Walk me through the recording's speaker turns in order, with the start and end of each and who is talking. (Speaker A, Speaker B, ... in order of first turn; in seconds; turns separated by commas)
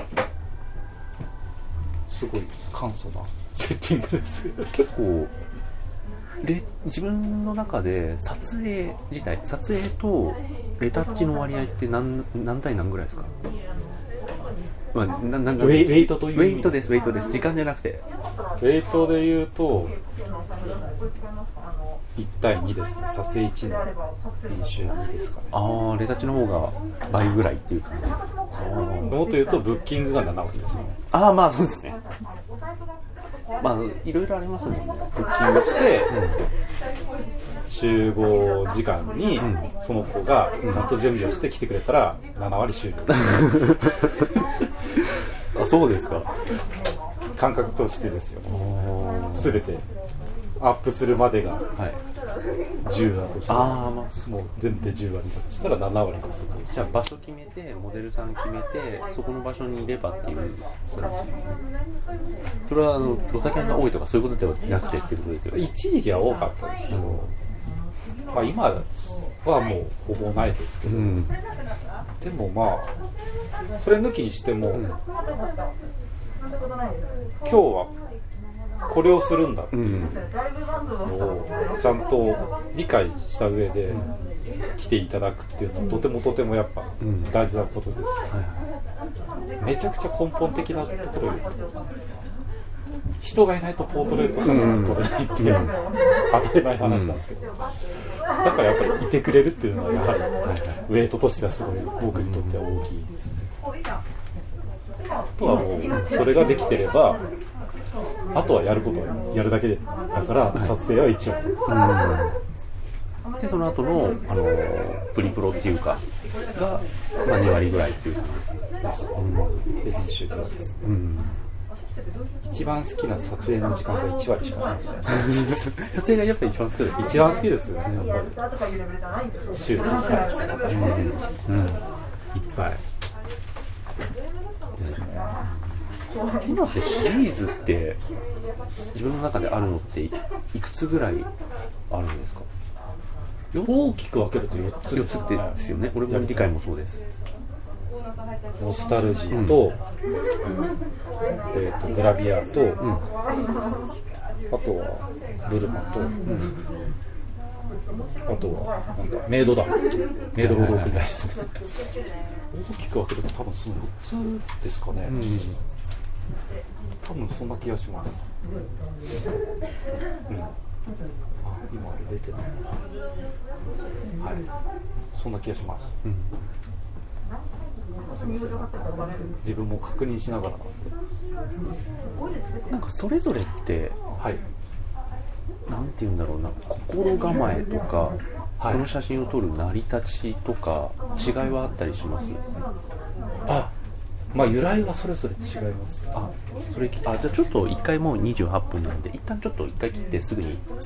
Speaker A: 2.1-4.9, Speaker B: 4.7-5.3, Speaker B: 6.4-13.3, Speaker B: 14.9-18.0, Speaker A: 15.6-17.1, Speaker A: 18.6-19.9, Speaker A: 22.1-23.9, Speaker A: 24.5-25.5, Speaker B: 25.5-29.2, Speaker A: 29.0-31.0, Speaker B: 31.1-32.0, Speaker B: 33.6-35.5, Speaker A: 35.2-36.3, Speaker B: 36.1-36.4, Speaker A: 37.7-44.1, Speaker B: 39.4-39.7, Speaker B: 43.3-44.2, Speaker B: 45.5-46.3, Speaker A: 47.3-49.8, Speaker B: 48.5-49.6, Speaker A: 50.6-51.6, Speaker A: 52.8-57.0, Speaker B: 53.5-54.2, Speaker B: 56.7-61.5, Speaker B: 62.7-65.7, Speaker A: 65.5-67.3, Speaker B: 66.9-67.2, Speaker A: 68.3-71.3, Speaker B: 70.8-71.3, Speaker A: 72.2-72.9, Speaker A: 73.8-74.9, Speaker B: 74.7-75.0, Speaker A: 77.4-77.9, Speaker A: 78.9-80.1, Speaker B: 79.7-80.2, Speaker A: 81.0-84.1, Speaker A: 84.8-88.4, Speaker B: 87.0-87.3, Speaker B: 88.3-88.6, Speaker A: 89.6-91.5, Speaker A: 93.2-95.7, Speaker B: 94.4-95.7, Speaker A: 96.3-97.5, Speaker B: 96.8-97.2, Speaker A: 98.4-100.3, Speaker B: 100.4-100.8, Speaker A: 100.8-103.5, Speaker B: 102.1-102.6, Speaker A: 105.3-107.2, Speaker A: 108.3-111.7, Speaker B: 111.7-112.3, Speaker B: 113.4-118.6, Speaker A: 118.8-120.8, Speaker B: 119.1-119.5, Speaker B: 120.8-121.3, Speaker A: 122.5-125.6, Speaker B: 125.1-128.3, Speaker A: 127.0-128.2, Speaker A: 129.5-130.8, Speaker B: 130.6-131.2, Speaker A: 131.4-132.8, Speaker A: 134.8-135.4, Speaker B: 135.4-135.7, Speaker B: 136.2-138.0, Speaker B: 138.9-141.3, Speaker B: 141.9-142.5, Speaker A: 143.5-146.5, Speaker B: 144.9-147.0, Speaker A: 148.6-149.8, Speaker B: 149.3-149.6, Speaker A: 151.5-153.0, Speaker A: 154.5-156.4, Speaker B: 156.3-156.5, Speaker A: 158.2-161.6, Speaker B: 160.4-161.0, Speaker A: 162.5-165.5, Speaker B: 165.0-165.6, Speaker A: 167.0-168.2, Speaker A: 170.3-170.5, Speaker A: 171.4-172.6, Speaker A: 175.1-176.0, Speaker B: 176.0-176.3, Speaker A: 178.1-180.9, Speaker B: 182.7-184.0, Speaker B: 185.7-192.4, Speaker A: 188.6-188.9, Speaker A: 193.5-193.7, Speaker A: 194.3-196.3, Speaker B: 196.1-200.6